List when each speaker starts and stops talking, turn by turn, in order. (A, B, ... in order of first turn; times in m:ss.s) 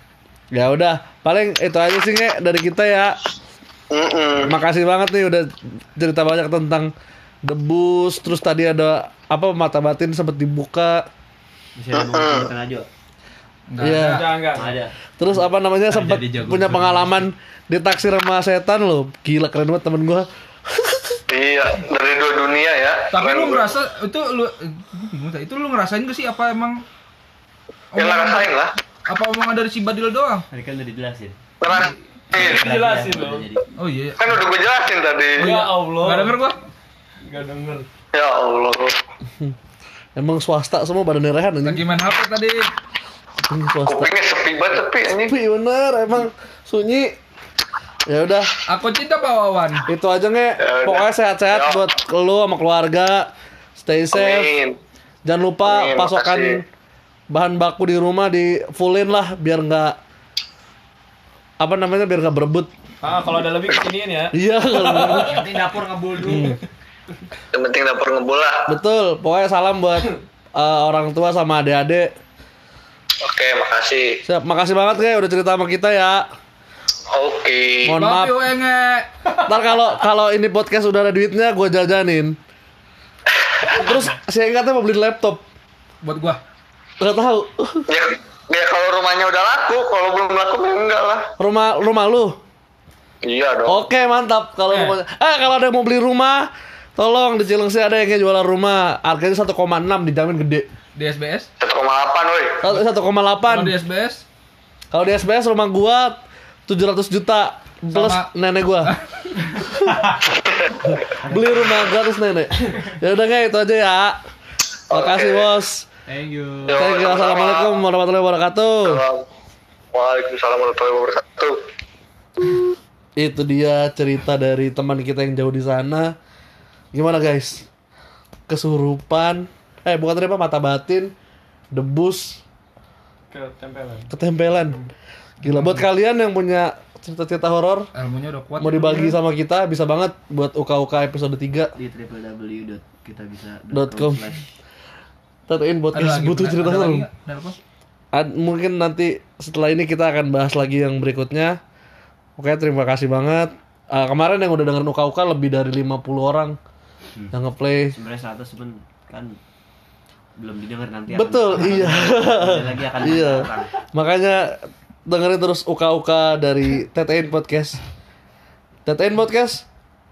0:00.5-0:03.2 A
0:03.9-0:04.5 B
0:04.4-0:06.9 A
0:07.4-0:11.0 A
0:11.8-0:12.8 C
0:11.9-0:12.5 B
0:13.7-0:14.2 D
0:13.8-0:14.2 A
0:14.0-0:14.7 E
0:14.5-0:14.9 C
0:15.2-0:21.2 A
0:15.9-0:17.2 F
0:21.3-0:23.7 B
0:23.1-0:26.8 D
0:27.9-0:28.5 D
0:28.0-0:28.7 B
0:29.1-0:30.4 D
0:30.5-0:31.8 C
0:31.6-0:32.6 B
0:32.3-0:33.6 C
0:32.4-0:33.4 E
0:33.8-0:34.4 D
0:34.2-0:35.5 B
0:35.4-0:36.4 E
0:35.4-0:36.6 D
0:37.3-0:37.8 E
0:38.1-0:38.9 B
0:40.2-0:41.8 A
0:41.6-0:42.6 D
0:43.5-0:44.1 A
0:43.9-0:45.3 B
0:45.1-0:47.1 A
0:48.1-0:48.5 A
0:48.7-0:49.8 D
0:49.9-0:53.3 A
0:50.6-0:51.8 B
0:53.8-0:54.5 A
0:54.1-0:54.8 B
0:55.2-0:56.6 A
0:55.6-0:56.6 B
0:57.3-1:00.0 A
1:01.6-1:02.7 A
1:03.0-1:04.3 E
1:04.3-1:05.6 A
1:04.8-1:06.6 F
1:06.2-1:06.6 A
1:07.5-1:08.7 B
1:08.7-1:12.1 A
1:13.2-1:14.2 B
1:14.2-1:16.2 A
1:17.1-1:18.0 B
1:17.8-1:18.3 A
1:18.0-1:19.1 D
1:19.4-1:22.4 A
1:23.8-1:25.4 A
1:26.0-1:26.4 D
1:27.0-1:27.9 A
1:27.9-1:31.3 B
1:31.4-1:32.4 A
1:33.2-1:33.8 B
1:33.6-1:40.7 A
1:34.7-1:35.0 D
1:40.9-1:41.5 D
1:41.6-1:42.6 B
1:42.6-1:43.7 A
1:43.4-1:44.2 D
1:44.9-1:48.9 A
1:47.9-1:48.3 D
1:48.8-1:49.3 D
1:49.7-1:50.2 A
1:50.4-1:51.0 B
1:50.8-1:54.2 A
1:51.2-1:51.6 C
1:54.9-1:55.8 A
1:54.9-1:55.5 B
1:56.1-1:56.8 F
1:56.6-1:57.7 B
1:56.7-1:59.0 A
1:58.8-1:59.2 B
1:59.9-2:01.6 B
2:03.2-2:06.1 A
2:06.9-2:07.6 A
2:08.5-2:11.1 A
2:11.7-2:12.4 A
2:13.3-2:14.1 E
2:14.1-2:14.8 A
2:15.4-2:17.9 A
2:15.4-2:15.8 D
2:17.9-2:19.2 D
2:18.6-2:21.7 A
2:21.7-2:24.4 C
2:23.7-2:24.2 A
2:25.5-2:27.0 A
2:25.9-2:27.6 D
2:28.1-2:31.6 A
2:32.4-2:36.6 A
2:37.3-2:37.9 A
2:37.9-2:39.4 C
2:40.4-2:43.7 C
2:41.1-2:44.6 A
2:45.1-2:47.8 A
2:48.8-2:49.6 A